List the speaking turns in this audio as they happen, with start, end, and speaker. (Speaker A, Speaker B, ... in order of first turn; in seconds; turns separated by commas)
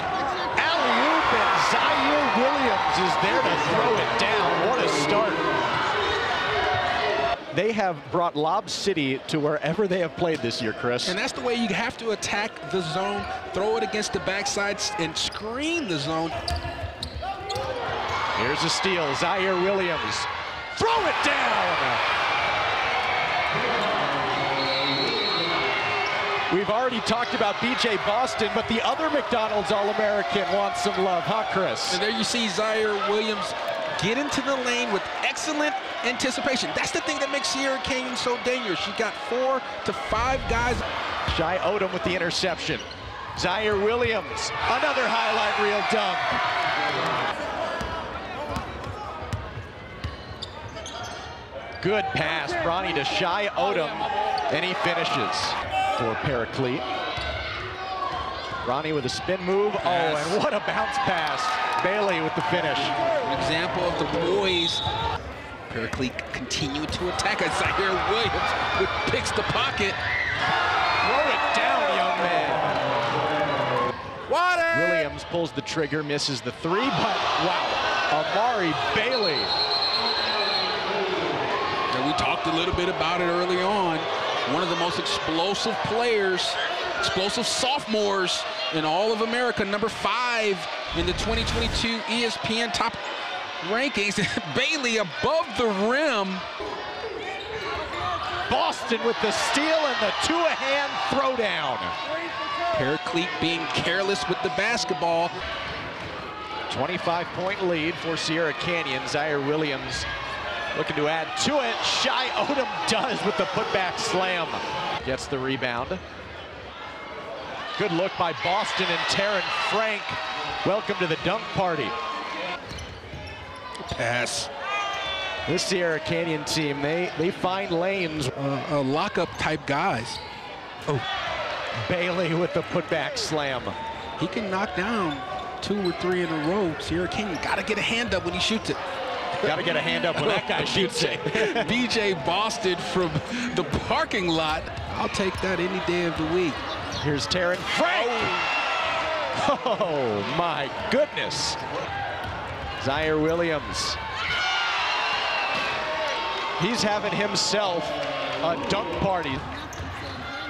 Speaker A: 0.6-5.4, Speaker A: 7.5-11.2, Speaker B: 11.0-16.4, Speaker A: 18.4-22.0, Speaker A: 26.5-32.0, Speaker B: 31.9-40.9, Speaker A: 41.3-42.9, Speaker A: 43.4-46.4, Speaker A: 51.8-56.9, Speaker A: 58.6-62.9, Speaker B: 59.8-60.4, Speaker B: 63.2-64.8, Speaker B: 65.7-70.0, Speaker A: 71.0-72.7, Speaker B: 74.3-75.1, Speaker A: 74.7-79.5, Speaker B: 81.9-93.0, Speaker B: 93.6-96.5, Speaker A: 98.5-102.0, Speaker B: 102.7-105.3, Speaker A: 106.7-110.1, Speaker A: 110.7-116.0, Speaker A: 117.8-122.0, Speaker B: 123.8-124.5, Speaker A: 125.5-128.3, Speaker B: 128.4-130.2, Speaker A: 131.8-133.8, Speaker B: 134.2-138.8, Speaker B: 139.4-146.6, Speaker A: 139.4-141.7, Speaker A: 147.0-148.3, Speaker B: 147.8-148.3, Speaker A: 149.3-151.6, Speaker A: 152.8-154.0, Speaker A: 156.6-159.5